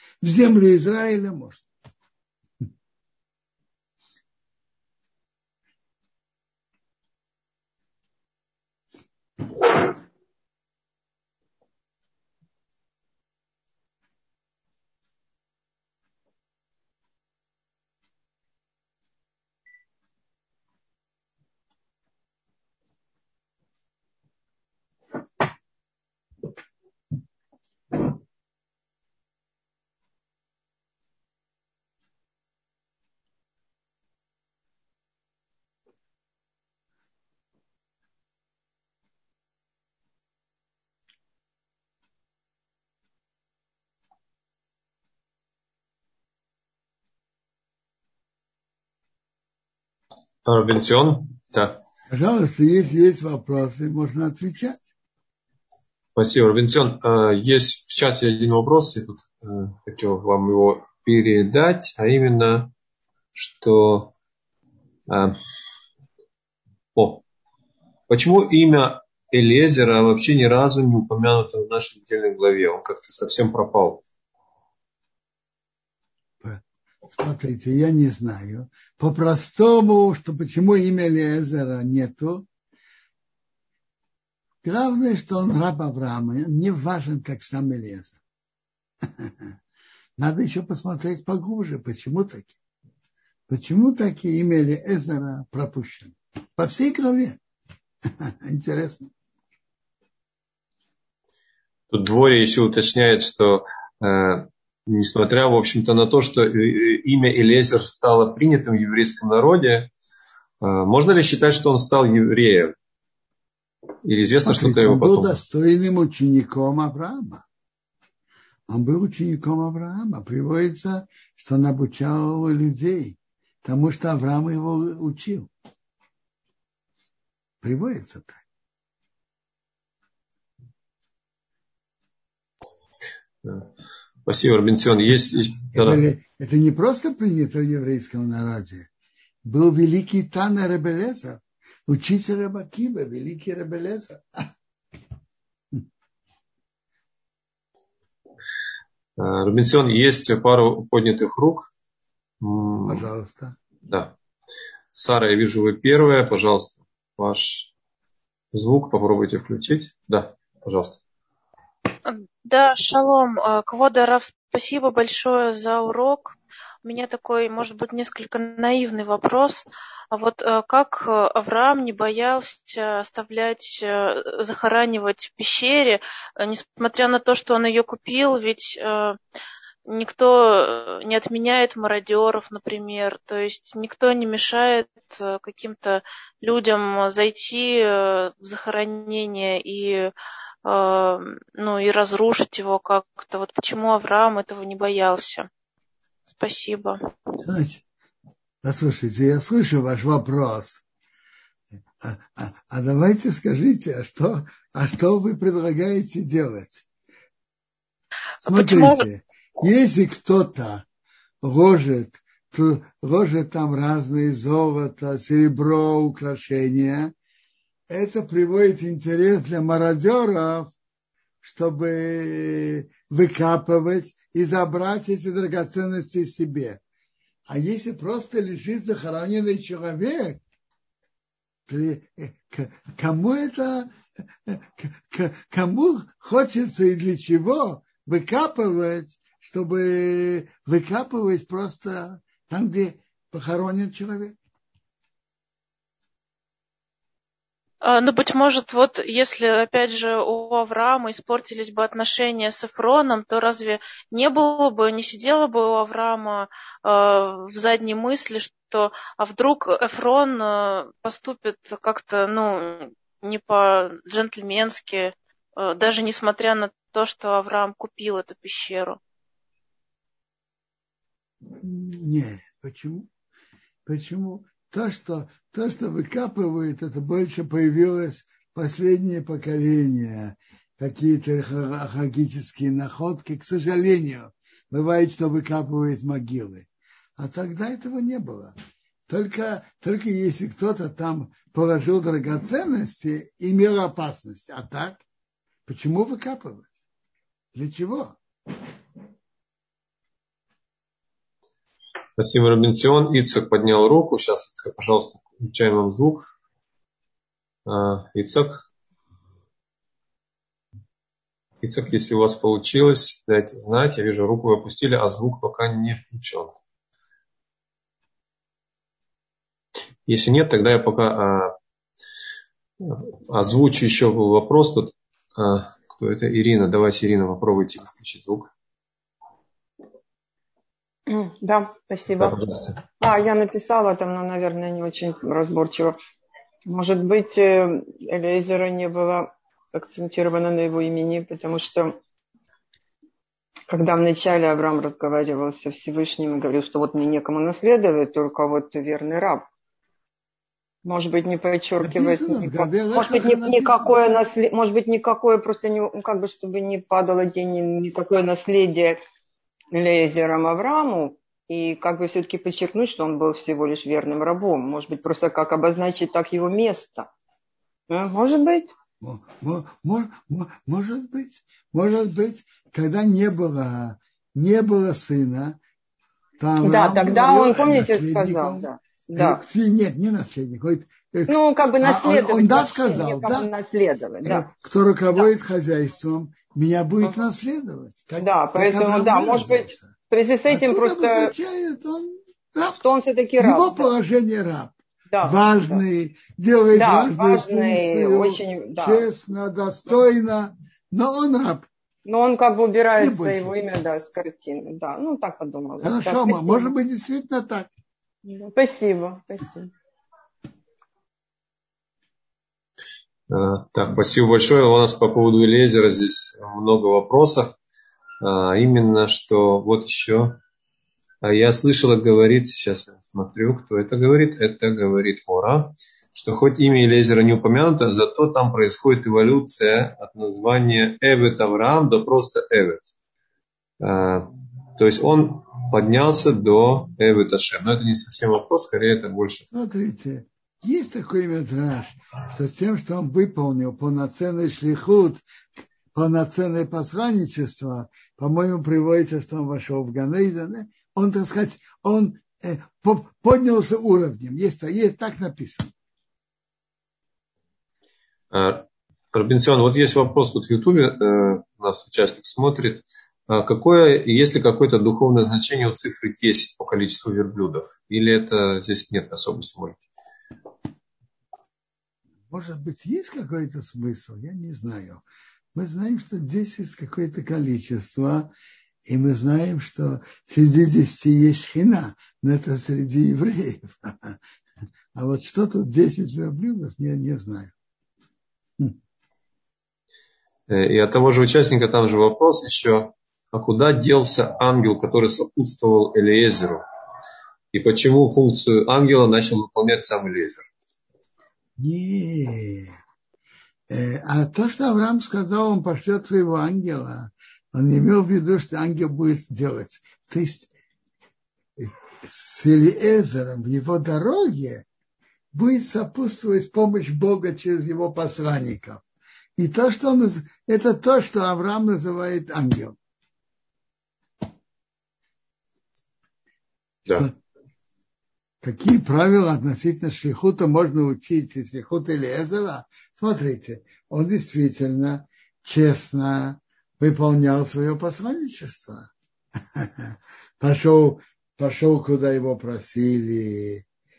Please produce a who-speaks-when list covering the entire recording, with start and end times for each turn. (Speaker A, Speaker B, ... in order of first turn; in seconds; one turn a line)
Speaker A: 0.2-1.6
Speaker B: 50.4-51.8
Speaker A: 52.1-54.8
Speaker B: 56.1-62.7
Speaker B: 63.3-64.1
Speaker B: 65.1-65.3
Speaker B: 66.9-67.2
Speaker B: 68.1-74.0
Speaker A: 76.4-82.5
Speaker A: 84.6-88.2
Speaker A: 89.2-89.5
Speaker A: 90.2-92.5
Speaker A: 93.5-97.4
Speaker A: 98.1-99.1
Speaker B: 101.9-109.9
Speaker B: 110.6-112.8
Speaker B: 114.0-115.4
Speaker A: 114.4-117.4
Speaker A: 118.7-125.5
Speaker A: 127.6-128.4
Speaker B: 133.4-133.7
Speaker B: 134.2-136.0
Speaker A: 135.7-138.9
Speaker A: 139.4-144.5
Speaker B: 149.2-151.7
Speaker B: 152.4-153.1
Speaker A: 152.8-153.6
Speaker B: 153.9-154.1
Speaker B: 154.9-157.7
Speaker B: 158.5-161.0
Speaker C: 162.0-179.2
Speaker C: 179.9-190.1
Speaker C: 190.6-195.5
Speaker C: 196.3-197.0
Speaker A: 197.4-197.8
Speaker A: 198.6-200.8
Speaker A: 202.0-206.8
Speaker A: 208.4-210.8
Speaker C: 208.5-209.0
Speaker A: 211.4-217.1
Speaker A: 217.9-220.7
Speaker A: 221.4-226.8
Speaker A: 227.5-230.4
Speaker A: 231.7-233.9
Speaker A: 234.4-244.4
Speaker C: 247.8-269.0
Speaker A: 271.5-273.1
Speaker A: 273.9-288.5
Speaker A: 289.1-295.0
Speaker A: 295.6-296.7
Speaker A: 297.5-298.2
Speaker B: 302.2-306.3
Speaker B: 307.6-308.6
Speaker B: 311.6-316.5
Speaker B: 320.1-321.5
Speaker B: 322.8-328.5
Speaker D: 331.1-332.4
Speaker B: 332.2-332.8
Speaker D: 333.0-335.9
Speaker D: 336.7-341.9
Speaker D: 343.7-349.4
Speaker D: 350.8-359.0
Speaker A: 351.8-354.1
Speaker D: 359.7-367.1
Speaker D: 367.9-368.7
Speaker A: 369.0-375.6
Speaker A: 376.4-383.5
Speaker D: 376.6-379.4
Speaker D: 381.3-384.5
Speaker A: 384.2-389.9
Speaker D: 388.2-391.3
Speaker A: 390.5-392.8
Speaker D: 392.8-393.9
Speaker A: 393.4-401.7
Speaker D: 395.1-395.8
Speaker D: 396.7-399.1
Speaker D: 402.0-406.7
Speaker A: 403.0-403.6
Speaker A: 405.8-407.7
Speaker D: 408.2-409.7
Speaker B: 413.3-417.6
Speaker B: 418.2-420.4
Speaker B: 421.2-432.9
Speaker B: 433.8-439.4
Speaker A: 439.5-445.2
Speaker A: 445.9-455.7
Speaker B: 458.3-469.8
Speaker A: 472.3-478.3
Speaker A: 478.9-484.2
Speaker A: 484.9-487.5
Speaker B: 490.5-496.6
Speaker B: 497.5-500.4
Speaker A: 501.6-502.7
Speaker A: 503.7-510.5
Speaker A: 511.6-514.6
Speaker A: 515.3-518.8
Speaker A: 519.4-522.8
Speaker A: 528.4-538.9
Speaker A: 539.5-543.6